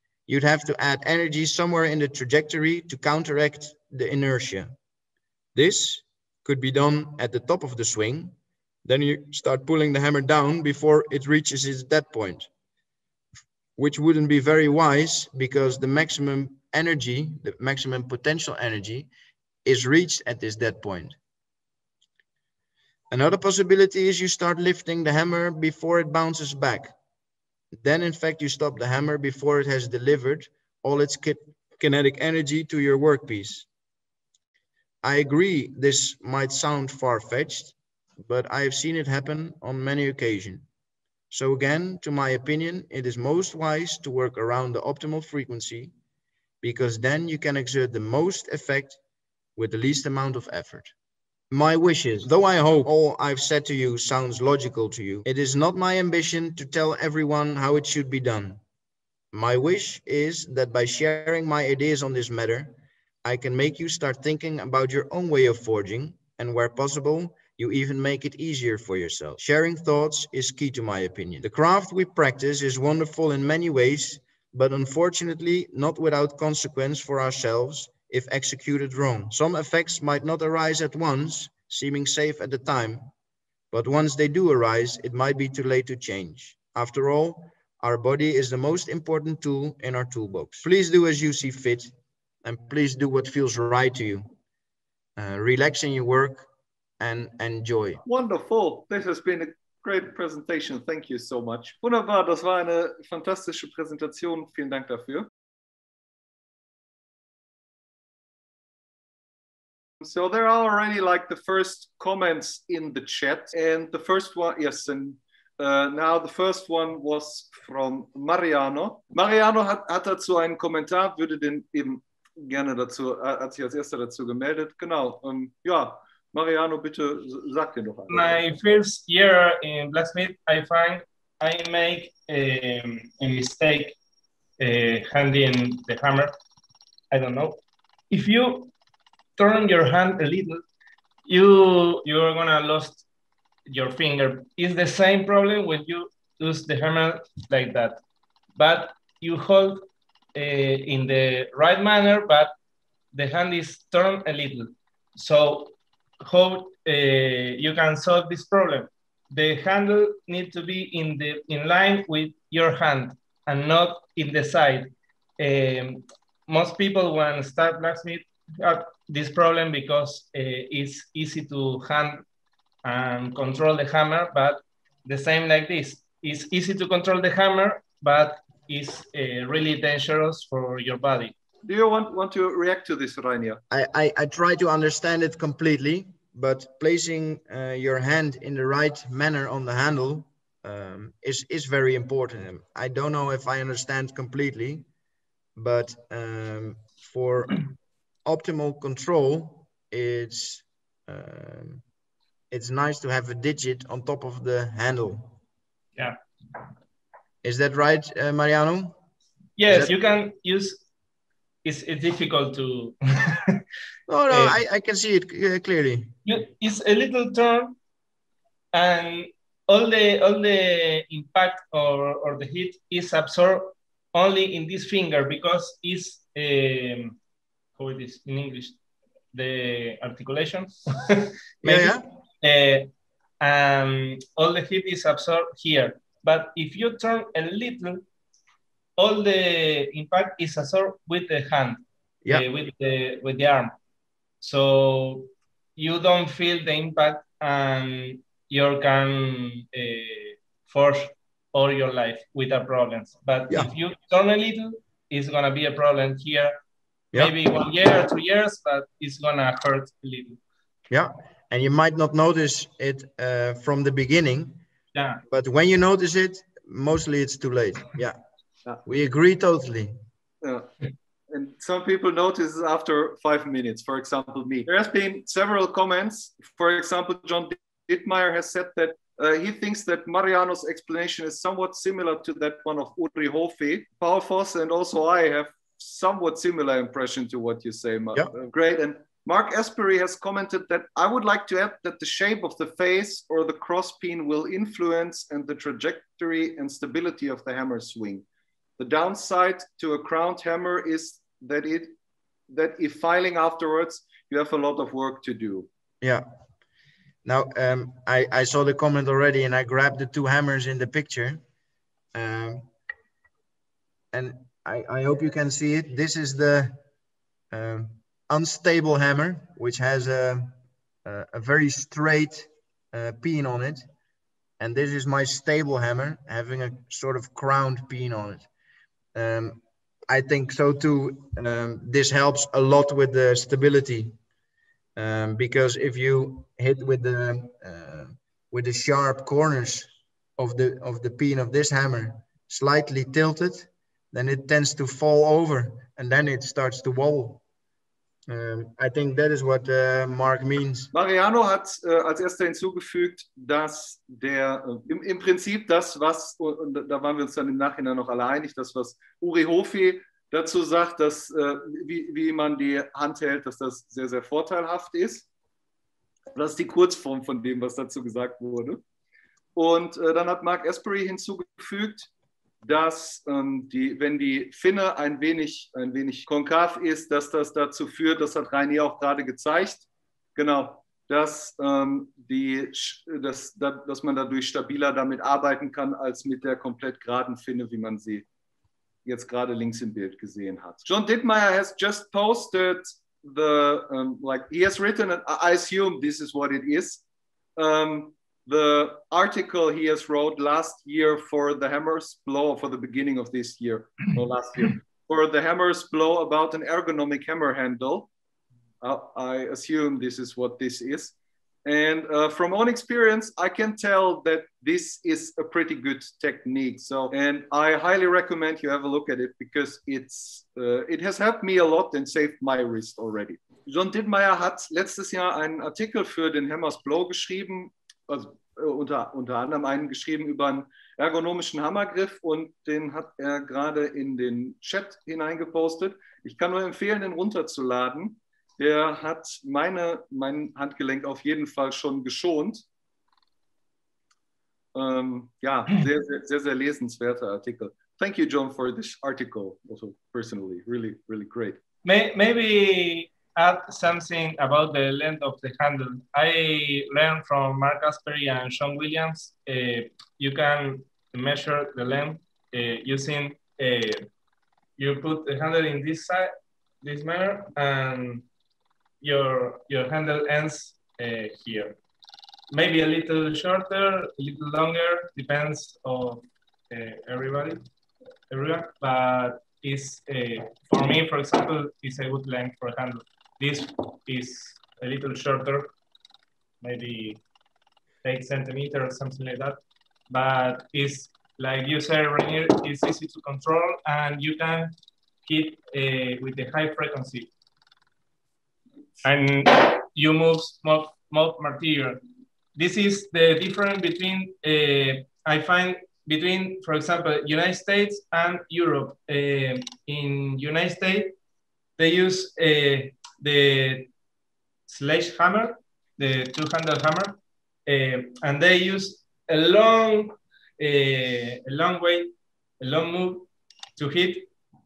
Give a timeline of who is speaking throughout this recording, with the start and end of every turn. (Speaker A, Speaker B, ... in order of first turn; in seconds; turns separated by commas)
Speaker A: 0.3-4.7, Speaker A: 5.5-8.3, Speaker A: 8.8-12.5, Speaker A: 13.8-19.1, Speaker A: 19.6-21.1, Speaker A: 23.1-26.9, Speaker A: 27.7-33.7, Speaker A: 35.0-40.6, Speaker A: 41.3-45.9, Speaker A: 46.6-49.0, Speaker A: 49.5-50.9, Speaker A: 51.5-58.6, Speaker A: 59.3-83.1, Speaker A: 83.7-91.9, Speaker A: 92.4-94.2, Speaker A: 95.2-96.5, Speaker A: 97.0-98.0, Speaker B: 98.0-105.3, Speaker B: 110.0-128.4, Speaker C: 128.1-133.9, Speaker C: 134.6-136.3, Speaker C: 137.1-137.6, Speaker C: 138.1-138.7, Speaker C: 139.4-140.6, Speaker C: 141.2-143.1, Speaker C: 143.7-148.0, Speaker C: 148.6-149.8, Speaker C: 150.3-152.5, Speaker C: 153.1-172.2, Speaker C: 172.8-181.3, Speaker B: 181.6-183.6, Speaker A: 183.7-194.8, Speaker A: 195.6-197.7, Speaker A: 198.2-201.8, Speaker A: 202.5-205.3, Speaker A: 207.4-208.9, Speaker C: 209.6-210.8, Speaker A: 209.7-209.9, Speaker C: 211.6-213.6, Speaker A: 214.1-216.1, Speaker C: 214.3-214.6, Speaker C: 216.2-217.8, Speaker C: 218.7-227.2, Speaker C: 227.8-228.8, Speaker C: 229.3-232.9, Speaker A: 231.6-232.0, Speaker C: 233.4-238.0, Speaker C: 239.0-243.7, Speaker C: 244.4-256.6, Speaker C: 257.1-260.4, Speaker A: 260.9-264.6, Speaker C: 264.9-265.2, Speaker A: 265.3-268.2, Speaker A: 268.8-269.9, Speaker B: 270.4-270.7, Speaker B: 271.3-298.2, Speaker B: 298.8-301.9, Speaker B: 302.5-305.7, Speaker A: 307.2-311.4, Speaker A: 312.1-312.6, Speaker A: 314.1-316.8, Speaker A: 317.5-320.5, Speaker A: 321.0-323.8, Speaker A: 324.6-328.4, Speaker A: 329.1-334.1, Speaker A: 334.9-347.4, Speaker A: 348.3-350.9, Speaker B: 350.9-365.2, Speaker B: 366.3-368.8, Speaker B: 369.6-372.1, Speaker B: 372.6-388.2, Speaker B: 389.0-397.0, Speaker B: 397.6-408.1, Speaker B: 408.8-411.1, Speaker B: 411.6-442.6, Speaker B: 444.7-451.6, Speaker C: 451.8-464.1, Speaker C: 464.8-466.3, Speaker C: 466.8-468.2, Speaker C: 469.0-471.8, Speaker C: 472.5-477.6, Speaker C: 478.3-485.7, Speaker C: 486.6-487.2, Speaker C: 488.0-489.6, Speaker C: 490.1-494.7, Speaker C: 495.2-497.3, Speaker C: 499.0-502.0, Speaker C: 502.5-511.1, Speaker C: 511.8-513.9, Speaker C: 514.7-524.3